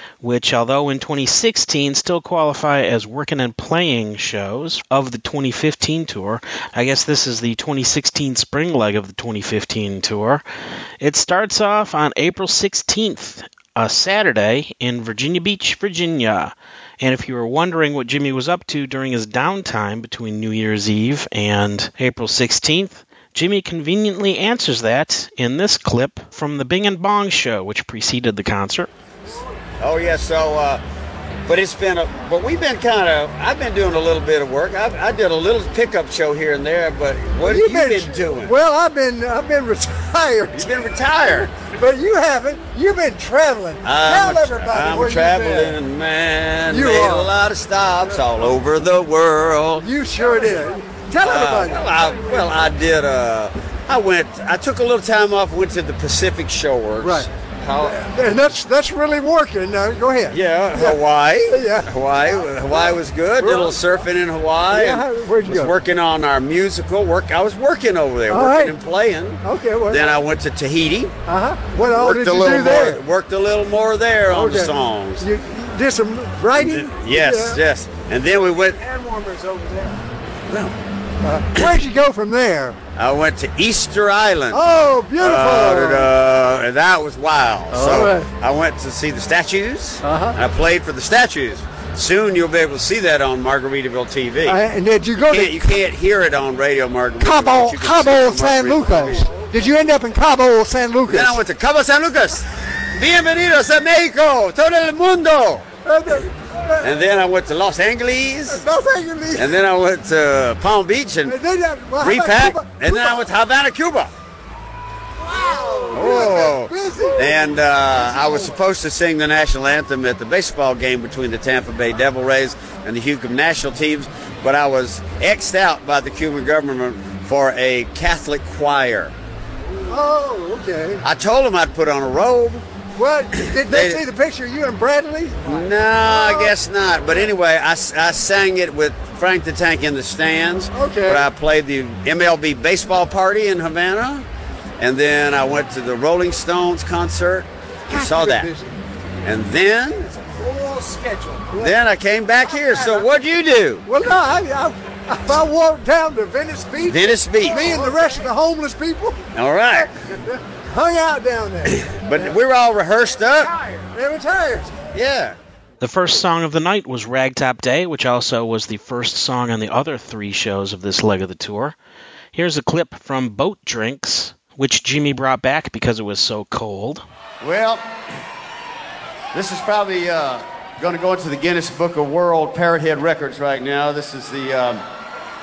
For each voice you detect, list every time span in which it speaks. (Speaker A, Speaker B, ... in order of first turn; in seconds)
Speaker A: 0.2-10.4, 11.0-28.9, 165.8-171.8, 172.3-177.0
Speaker B: 29.8-30.8, 31.5-38.6, 40.5-41.5, 43.8-50.5, 51.2-58.1, 60.3-71.1, 71.8-75.3, 76.6-78.8, 80.5-80.8, 83.0-84.6, 85.2-94.6, 95.3-99.4, 101.1-105.7, 106.8-108.7, 109.4-111.3, 112.0-114.1, 115.9-129.1, 131.0-132.7, 133.4-134.0, 135.4-144.3, 144.8-148.5, 149.2-150.2, 151.6-153.9, 156.8-158.0, 159.3-159.9, 161.7-163.5, 164.9-165.4, 177.4-178.0, 179.3-184.8
Speaker C: 37.4-40.7, 41.5-45.8, 46.7-47.3, 49.8-52.1, 57.0-57.3, 57.8-61.9, 63.4-63.8, 64.7-65.8, 68.3-68.7, 69.4-70.1, 71.3-73.0, 74.3-77.6, 78.8-80.0, 81.2-82.8, 84.5-86.1, 87.7-88.3, 90.0-90.4, 94.5-95.6, 97.2-101.4, 105.8-107.0, 108.5-109.5, 111.3-113.2, 115.2-117.4, 129.9-131.0, 133.0-136.5, 140.7-141.3, 147.9-148.7, 150.3-151.8, 153.9-159.2, 160.0-162.2, 163.7-164.7